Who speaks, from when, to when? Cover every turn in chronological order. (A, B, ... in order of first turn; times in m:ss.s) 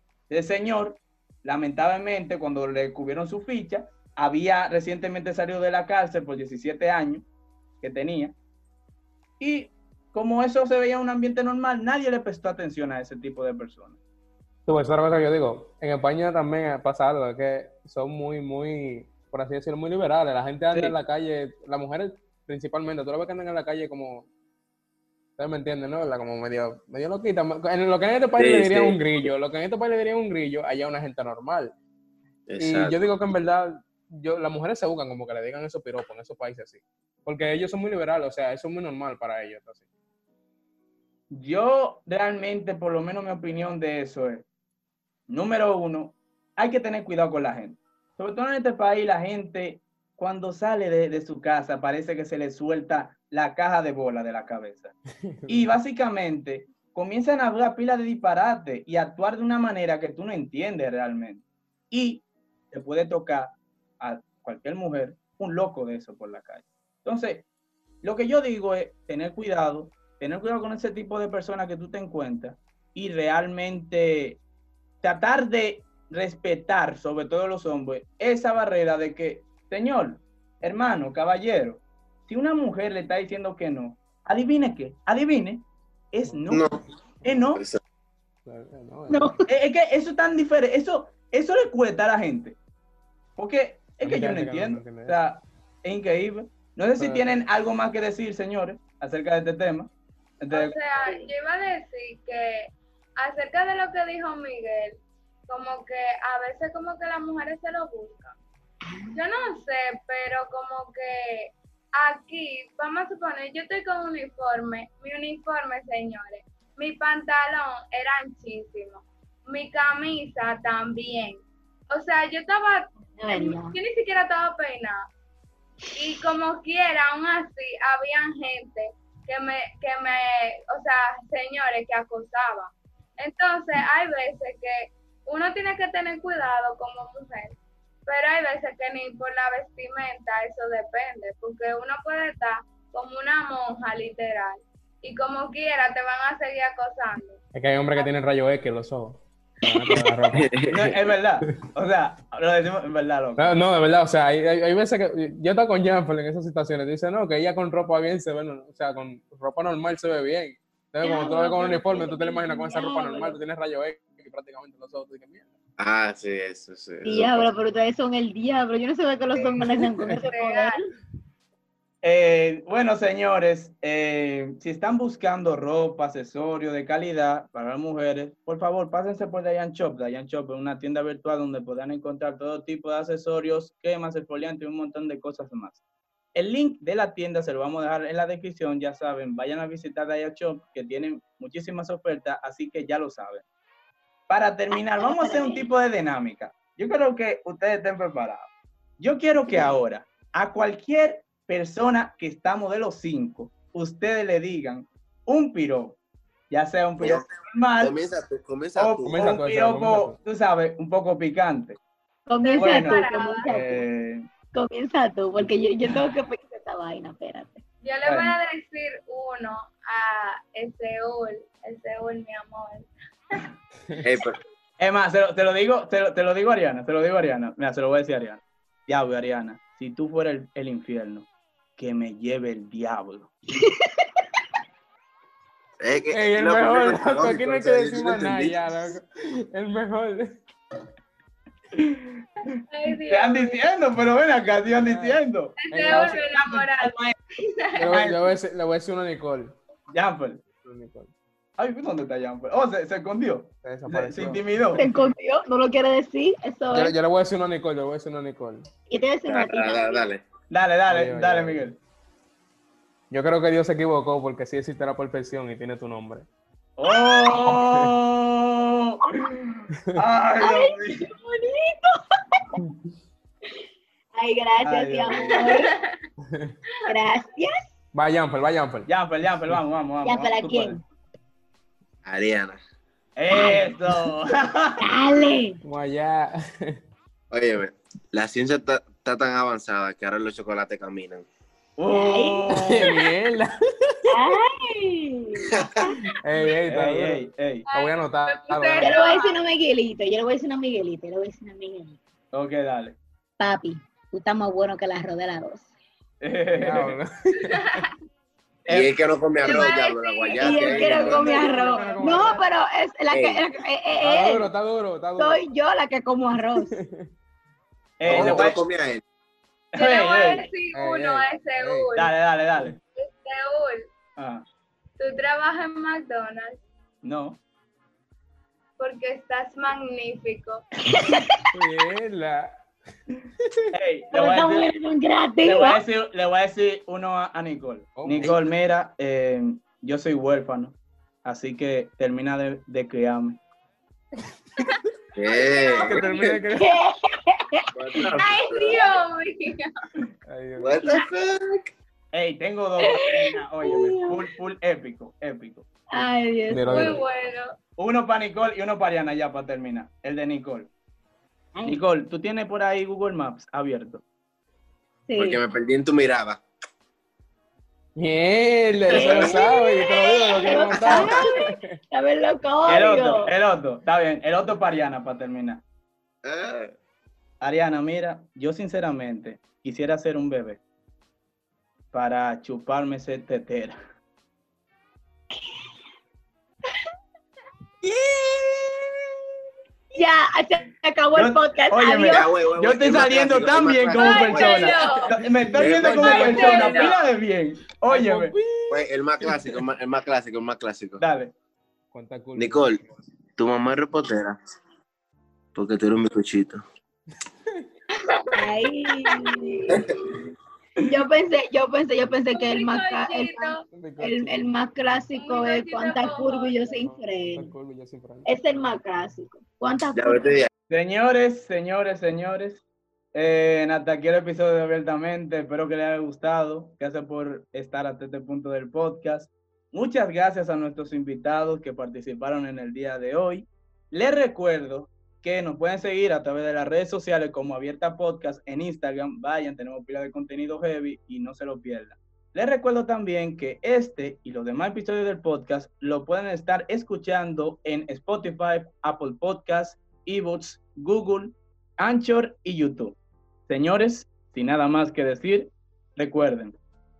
0:00.3-0:07.2 A
0:07.8-0:08.4 A
0:09.4-0:14.0 A
0:14.7-0:24.3 B
0:25.4-0:31.7 B
0:28.4-0:29.3 C
0:32.5-0:33.1 C
0:32.6-0:39.8 B
0:41.3-0:44.4 A
0:45.3-0:55.0 A
0:55.3-0:55.8 B
0:55.5-1:07.5 A
1:08.0-1:14.4 A
1:15.0-1:26.7 A
1:26.5-1:26.8 C
1:27.2-1:27.6 A
1:27.5-1:27.8 C
1:28.5-1:29.4 B
1:29.1-1:29.4 D
1:29.5-1:32.6 A
1:33.4-1:41.2 A
1:34.0-1:35.2 B
1:37.0-1:37.3 B
1:40.5-1:48.4 E
1:48.8-1:49.2 D
1:49.2-2:05.1 E
2:03.2-2:03.8 D
2:06.0-2:27.4 E
2:27.5-2:30.5 B
2:30.3-2:30.9 C
2:30.7-2:33.5 A
2:33.4-2:45.5 B
2:41.0-2:43.4 D
2:45.8-2:47.5 C
2:47.0-2:50.9 D
2:50.1-2:50.8 E
2:52.0-3:05.8 A
3:06.4-3:13.4 A
3:14.3-3:26.0 A
3:14.7-3:15.7 D
3:26.5-3:28.0 A
3:27.0-3:29.4 C
3:28.8-3:31.8 A
3:29.1-3:30.2 B
3:32.3-3:33.8 D
3:32.4-3:33.5 E
3:32.6-3:34.2 A
3:34.5-3:37.6 D
3:37.8-3:42.9 E
3:38.0-3:38.4 A
3:44.0-3:44.4 C
3:44.8-3:53.3 A
3:53.5-3:54.2 D
3:55.8-3:58.6 C
3:56.1-4:00.3 B
4:01.7-4:07.2 A
4:02.7-4:03.6 E
4:04.7-4:06.2 B
4:05.6-4:07.9 E
4:07.8-4:09.6 B
4:07.9-4:08.3 A
4:09.9-4:10.5 A
4:10.6-4:11.1 B
4:11.6-4:14.9 A
4:13.6-4:14.4 B
4:14.8-4:17.0 D
4:16.7-4:18.6 B
4:18.9-4:20.1 D
4:19.3-4:20.2 C
4:20.5-4:21.8 A
4:20.9-4:21.7 B
4:23.1-4:26.3 B
4:26.8-4:31.0 A
4:27.5-4:27.9 B
4:30.4-4:32.6 D
4:34.2-4:35.7 D
4:34.6-4:35.5 A
4:36.3-4:36.5 B
4:36.9-4:37.7 D
4:37.9-4:38.9 B
4:38.9-4:40.8 A
4:40.0-4:40.8 D
4:42.0-4:42.6 C
4:43.2-4:44.8 A
4:43.3-4:43.7 D
4:44.8-4:45.6 D
4:45.6-4:46.8 B
4:47.3-4:51.3 C
4:51.8-4:53.0 A
4:51.9-4:52.9 D
4:52.5-4:54.1 B
4:54.1-4:55.9 D
4:56.2-4:57.2 B
4:56.7-4:57.7 A
4:57.7-4:59.4 E
4:57.7-4:58.9 B
4:58.8-5:02.0 D
5:02.3-5:03.0 A
5:03.4-5:05.7 D
5:06.2-5:07.0 A
5:06.6-5:07.8 B
5:07.5-5:07.8 E
5:08.7-5:09.0 A
5:08.7-5:11.4 C
5:09.4-5:10.9 E
5:10.4-5:14.5 D
5:10.5-5:12.5 A
5:11.2-5:12.4 B
5:13.1-5:13.4 C
5:14.0-5:15.4 B
5:15.2-5:16.7 D
5:16.6-5:17.1 B
5:18.0-5:18.6 A
5:18.0-5:19.0 C
5:18.1-5:18.5 B
5:19.7-5:20.5 A
5:19.8-5:22.1 E
5:20.7-5:21.9 B
5:22.0-5:22.8 A
5:23.0-5:23.9 E
5:24.2-5:24.4 A
5:25.0-5:26.6 E
5:27.0-5:27.4 A
5:28.8-5:30.6 E
5:30.9-5:31.4 D
5:31.5-5:32.6 B
5:33.7-5:34.7 A
5:34.1-5:35.8 D
5:35.4-5:43.4 A
5:38.0-5:38.4 B
5:45.2-5:46.4 C
5:45.4-5:45.9 E
5:45.8-5:46.7 B
5:46.6-5:48.2 D
5:47.7-5:49.0 C
5:48.2-5:49.7 E
5:50.3-5:50.9 B
5:50.6-5:51.7 C
5:52.1-5:55.7 A
5:52.8-5:54.3 D
5:55.9-5:57.0 D
5:56.5-5:57.0 B
5:56.7-5:57.5 E
5:57.8-6:00.7 A
6:01.7-6:04.0 A
6:05.1-6:05.4 D
6:05.2-6:06.4 C
6:08.0-6:11.6 B
6:08.9-6:13.3 D
6:09.0-6:09.3 C
6:10.7-6:11.2 C
6:12.7-6:15.6 A
6:16.2-6:16.7 C
6:17.4-6:20.6 A
6:21.9-6:23.8 A
6:25.3-6:25.6 D
6:29.9-6:32.3 D
6:31.2-6:38.4 A
6:32.1-6:34.8 C
6:33.9-6:35.2 E
6:35.0-6:36.6 B
6:35.5-6:37.0 C
6:35.9-6:37.0 E
6:37.9-6:39.6 B
6:38.7-6:41.0 C
6:41.0-6:41.3 A
6:41.9-6:42.7 B
6:42.4-6:42.8 C
6:43.4-6:44.4 C
6:45.6-6:46.6 C
6:48.4-6:49.9 D
6:50.8-6:57.5 D
6:52.3-6:53.6 E
6:53.7-6:54.5 B
6:55.2-6:56.6 E
6:56.8-6:58.3 B
6:58.3-7:00.4 D
7:00.0-7:00.5 C
7:00.7-7:02.6 A
7:03.1-7:36.6 A